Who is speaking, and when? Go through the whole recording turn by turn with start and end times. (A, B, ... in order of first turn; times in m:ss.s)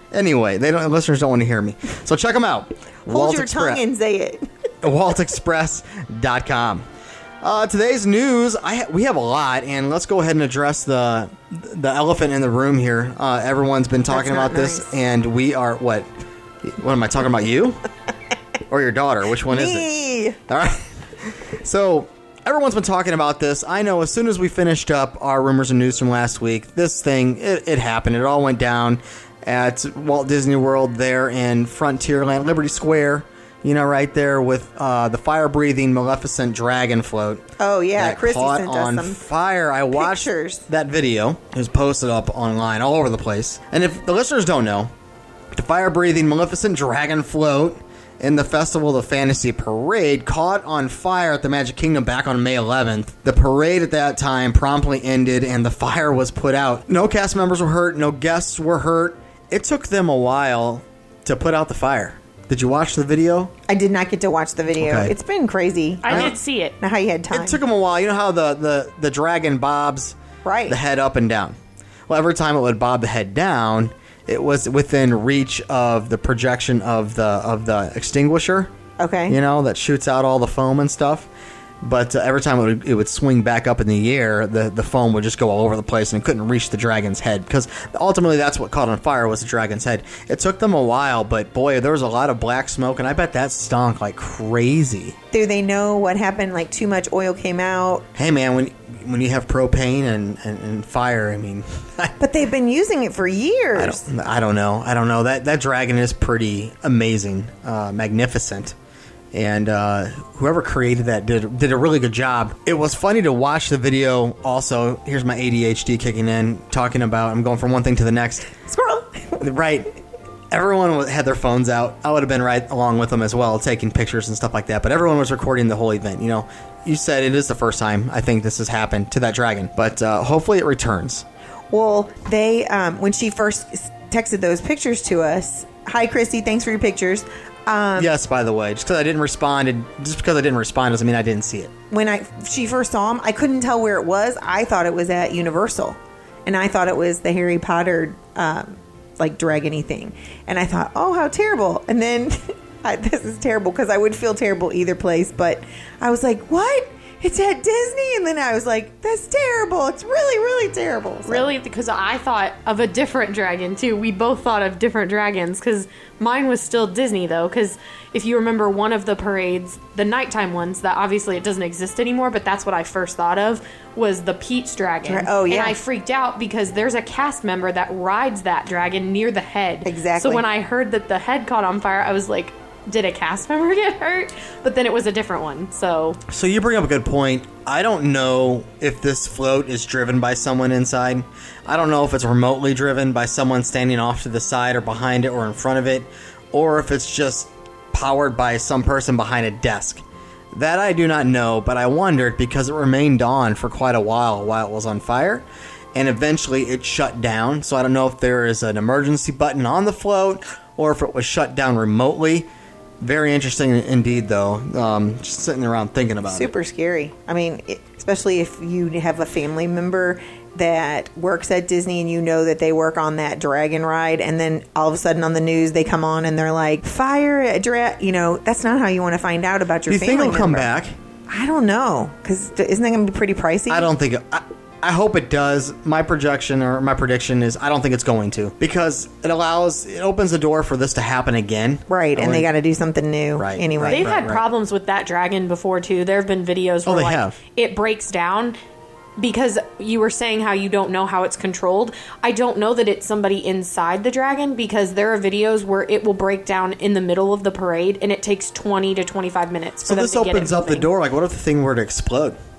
0:00.1-0:03.8 A
0:03.1-0:04.5 B
0:04.8-0:06.9 A
0:07.4-0:16.1 A
0:14.1-0:14.9 B
0:16.6-0:17.8 A
0:18.7-0:19.9 A
0:19.5-0:20.4 B
0:20.5-0:20.9 A
0:21.5-0:37.4 A
0:37.6-0:39.2 B
0:38.0-0:44.9 A
0:39.9-0:40.6 B
0:45.5-1:03.5 A
1:03.7-1:07.6 B
1:04.7-1:05.2 A
1:06.0-1:06.8 C
1:06.1-1:06.3 A
1:07.3-1:10.2 A
1:10.4-1:10.8 B
1:10.7-1:11.6 A
1:12.1-1:18.7 A
1:19.0-1:19.4 B
1:19.3-1:21.3 A
1:21.8-1:35.2 A
1:35.3-1:38.1 B
1:38.2-1:42.1 A
1:42.2-1:44.1 B
1:43.8-1:48.8 A
1:49.3-1:58.5 A
1:58.7-1:59.4 B
1:59.4-2:00.0 A
2:00.5-2:11.3 A
2:11.7-2:18.1 B
2:18.0-2:21.7 A
2:21.9-2:41.5 B
2:41.3-3:06.2 C
2:55.0-2:55.8 B
2:59.8-3:00.4 B
3:06.3-3:32.5 A
3:33.0-3:36.5 A
3:36.3-3:50.7 B
3:49.9-3:51.0 A
3:51.3-3:53.9 B
3:53.7-4:02.5 A
4:01.9-4:04.1 B
4:03.4-4:04.4 A
4:03.9-4:08.6 C
4:06.8-4:07.4 A
4:09.2-4:20.9 C
4:19.8-4:22.4 A